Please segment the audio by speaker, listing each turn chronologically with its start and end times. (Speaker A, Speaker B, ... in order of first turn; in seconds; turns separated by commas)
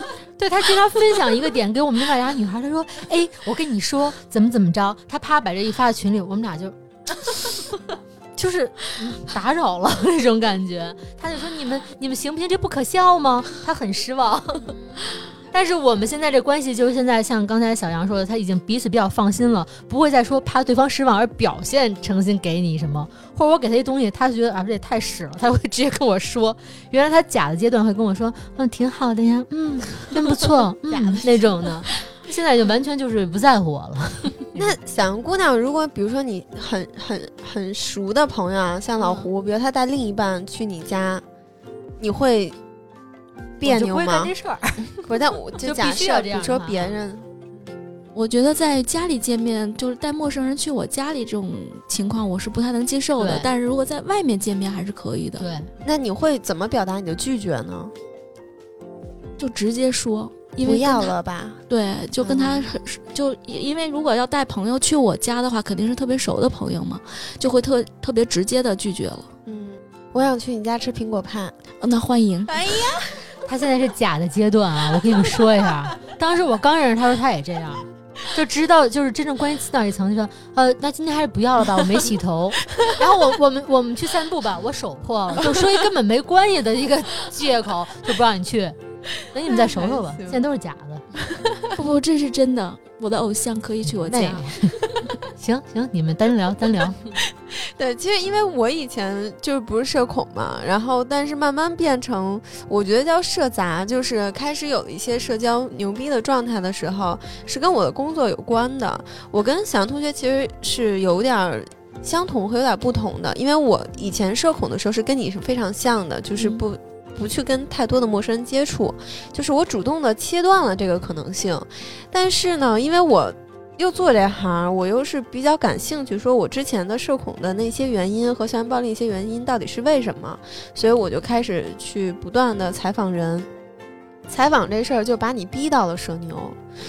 Speaker A: 0.4-6.7, Speaker A: 8.4-14.7, Speaker B: 14.7-15.0, Speaker A: 15.5-34.7, Speaker B: 30.9-31.7, Speaker B: 34.5-41.2, Speaker C: 39.0-39.2, Speaker B: 42.0-42.6, Speaker B: 43.6-44.3, Speaker A: 43.6-44.8, Speaker B: 44.9-47.2, Speaker A: 45.6-47.0, Speaker C: 48.1-55.5, Speaker A: 53.2-53.5, Speaker A: 55.4-55.7, Speaker B: 55.8-57.9, Speaker C: 59.4-61.1, Speaker B: 60.6-61.6, Speaker C: 61.7-69.3, Speaker B: 62.2-62.8, Speaker B: 69.5-71.5, Speaker C: 71.8-72.6, Speaker B: 72.5-73.2, Speaker A: 73.5-91.0, Speaker B: 89.6-90.4, Speaker C: 91.7-94.7, Speaker A: 93.9-94.7, Speaker A: 95.4-97.0, Speaker B: 97.5-133.5, Speaker B: 134.3-136.6